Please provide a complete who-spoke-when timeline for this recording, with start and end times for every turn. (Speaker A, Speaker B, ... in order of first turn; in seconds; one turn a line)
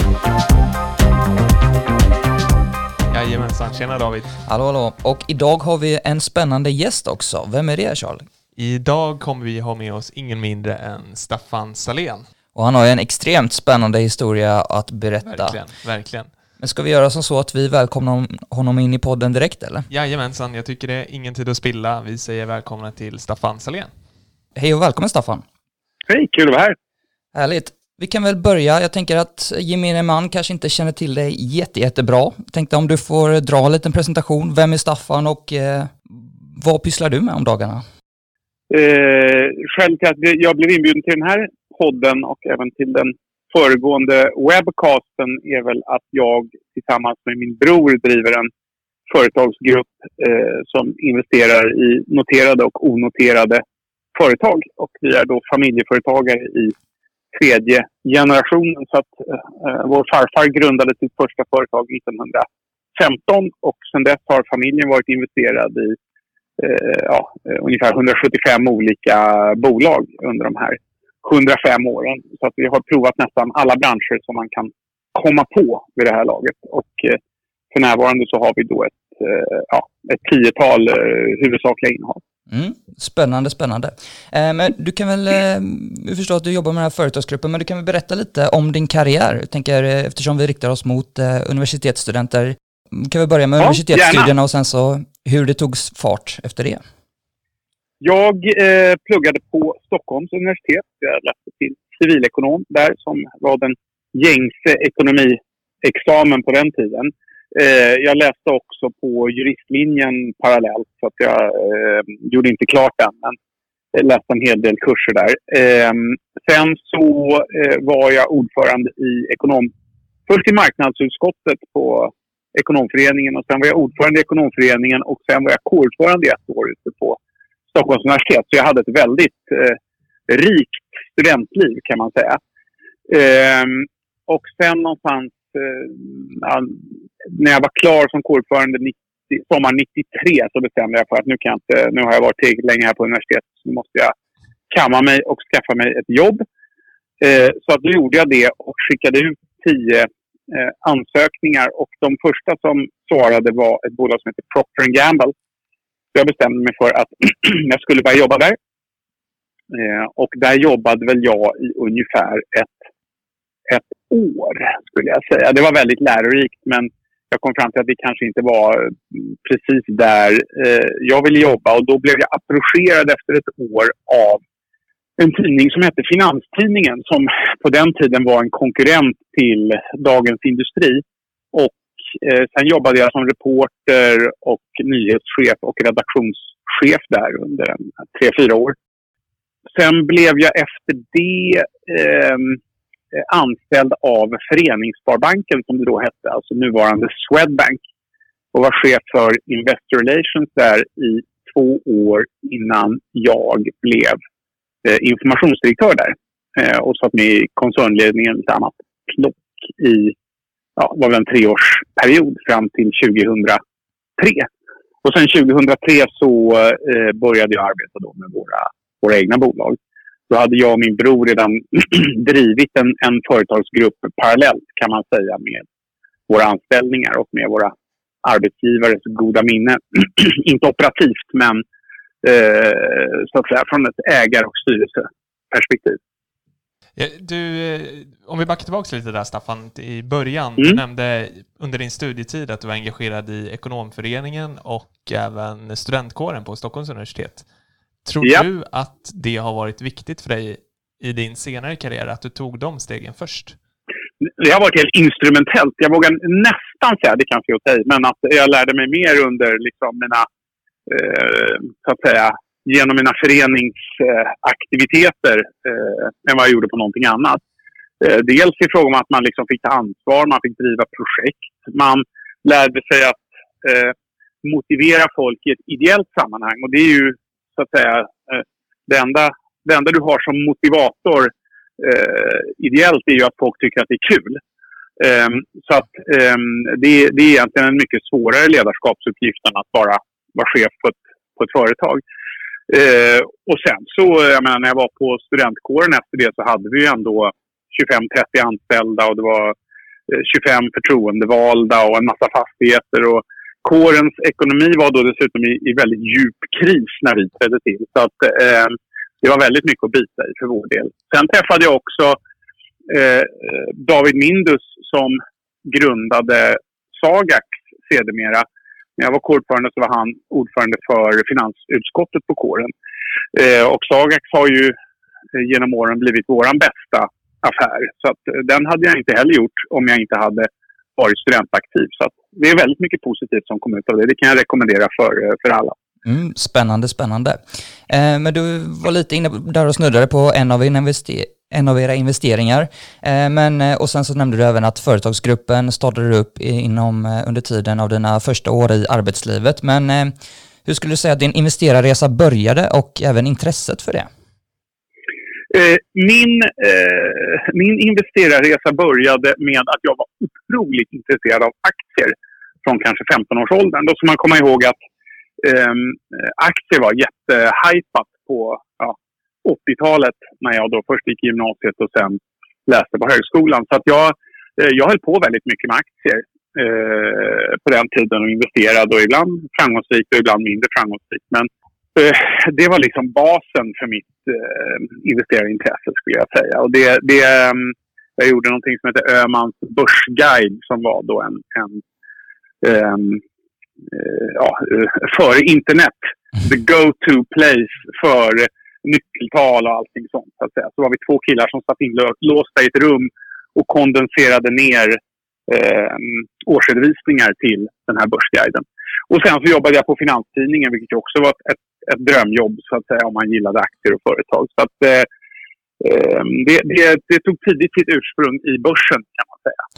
Speaker A: 3.1-4.3
Speaker B: 4.5-8.3
Speaker A: 8.6-12.2
Speaker B: 12.5-15.6
Speaker A: 15.2-16.3
Speaker B: 16.6-19.9
Speaker A: 19.9-23.9
Speaker B: 24.6-25.4
Speaker C: 26.1-26.8
Speaker B: 27.3-37.8
Speaker C: 38.7-48.5
Speaker C: 49.1-53.6
Speaker C: 54.1-56.7
Speaker C: 57.3-66.0
Speaker C: 66.6-77.2
Speaker C: 77.7-82.2
Speaker B: 82.5-96.8
Speaker C: 93.6-94.3
Speaker C: 98.0-113.3
Speaker C: 113.9-119.7
Speaker C: 120.3-127.2
Speaker C: 127.7-132.4
Speaker C: 133.1-144.1
Speaker C: 144.7-146.4
Speaker C: 147.2-155.3
Speaker C: 156.1-158.6
Speaker C: 159.7-162.8
Speaker C: 163.7-174.4
Speaker C: 175.2-188.8
Speaker C: 189.7-192.6
Speaker C: 193.1-197.8
Speaker C: 198.5-204.2
Speaker C: 204.8-210.1
Speaker C: 210.8-213.6
Speaker C: 214.2-214.5
Speaker C: 215.0-219.8
Speaker C: 220.3-225.6
Speaker C: 226.3-227.7
Speaker C: 228.2-231.6
Speaker C: 232.2-236.0
Speaker A: 236.9-247.4
Speaker A: 248.0-253.6
Speaker C: 254.2-260.2
Speaker C: 260.9-267.4
Speaker C: 268.0-284.4
Speaker C: 285.0-292.0
Speaker C: 292.7-299.5
Speaker C: 300.1-312.2
Speaker C: 312.9-318.4
Speaker C: 319.0-322.7
Speaker C: 323.3-324.7
Speaker C: 325.3-335.7
Speaker B: 336.0-354.1
Speaker C: 355.5-364.8
Speaker C: 365.4-391.8
Speaker C: 392.6-393.2
Speaker C: 393.9-415.1
Speaker C: 415.8-419.6